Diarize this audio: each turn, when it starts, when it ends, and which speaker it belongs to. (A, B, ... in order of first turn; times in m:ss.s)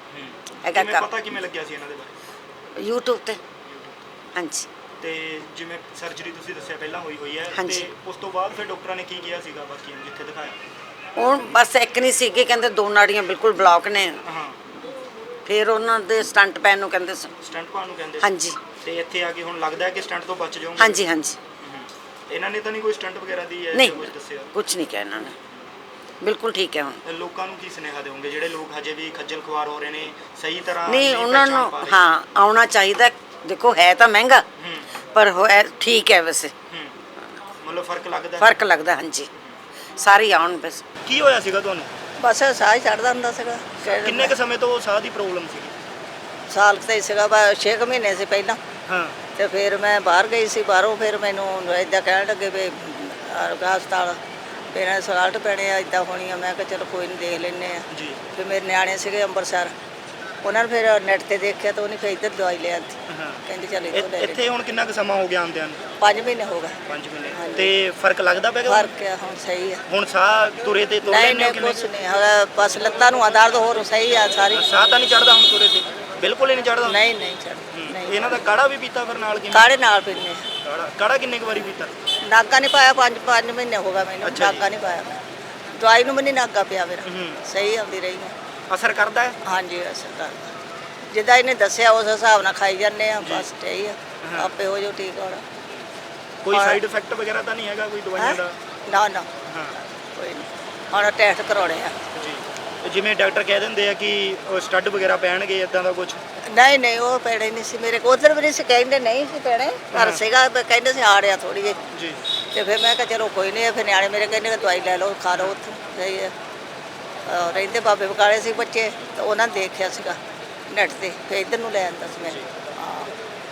0:00.1-0:02.1 A
0:00.6-0:01.1 B
0:02.8-0:03.4 B
0:04.3-0:04.7 B
0:05.0-0:10.6 A
0:07.5-0:07.9 B
0:11.2-0:14.2 B
0:14.2-0:14.6 A
0:15.4-0:17.3 B
0:17.4-0:18.3 A
0:18.2-0:18.6 B
0:18.8-0:21.0 A
0:20.8-0:21.4 B
0:21.6-0:24.5 A
0:23.7-0:25.3 B
0:26.2-0:27.0 B
0:27.0-0:32.0 A
0:30.9-0:34.4 B
0:34.6-0:34.9 A
0:35.1-0:36.5 B
0:37.6-0:38.5 A
0:38.4-0:39.3 B
0:40.0-0:40.8 B
0:41.0-0:41.9 A
0:42.2-0:44.4 C
0:43.8-0:45.7 A
0:46.5-0:48.6 C
0:48.9-0:49.2 A
0:49.4-0:59.7 C
0:57.9-0:58.2 A
1:00.4-1:04.4 C
1:03.1-1:05.8 A
1:06.0-1:06.8 C
1:06.9-1:08.9 A
1:07.3-1:07.7 C
1:08.6-1:09.8 C
1:09.9-1:12.2 A
1:11.1-1:14.7 C
1:14.5-1:17.1 A
1:16.9-1:18.4 C
1:17.7-1:19.7 A
1:19.5-1:20.4 C
1:20.6-1:22.0 A
1:22.3-1:25.2 C
1:24.2-1:24.7 A
1:25.8-1:28.3 C
1:27.0-1:27.4 A
1:28.7-1:29.4 A
1:29.4-1:30.5 C
1:31.1-1:35.4 C
1:33.2-1:33.5 A
1:34.2-1:34.5 A
1:36.4-1:38.6 A
1:36.5-1:36.8 C
1:38.2-1:39.3 C
1:39.5-1:39.8 A
1:40.1-1:42.0 C
1:42.1-1:46.2 A
1:46.5-1:51.8 C
1:49.9-1:50.2 A
1:51.9-1:52.2 A
1:52.5-1:56.3 C
1:55.3-1:55.6 A
1:57.3-2:00.2 C
2:00.7-2:03.1 C
2:02.2-2:02.5 A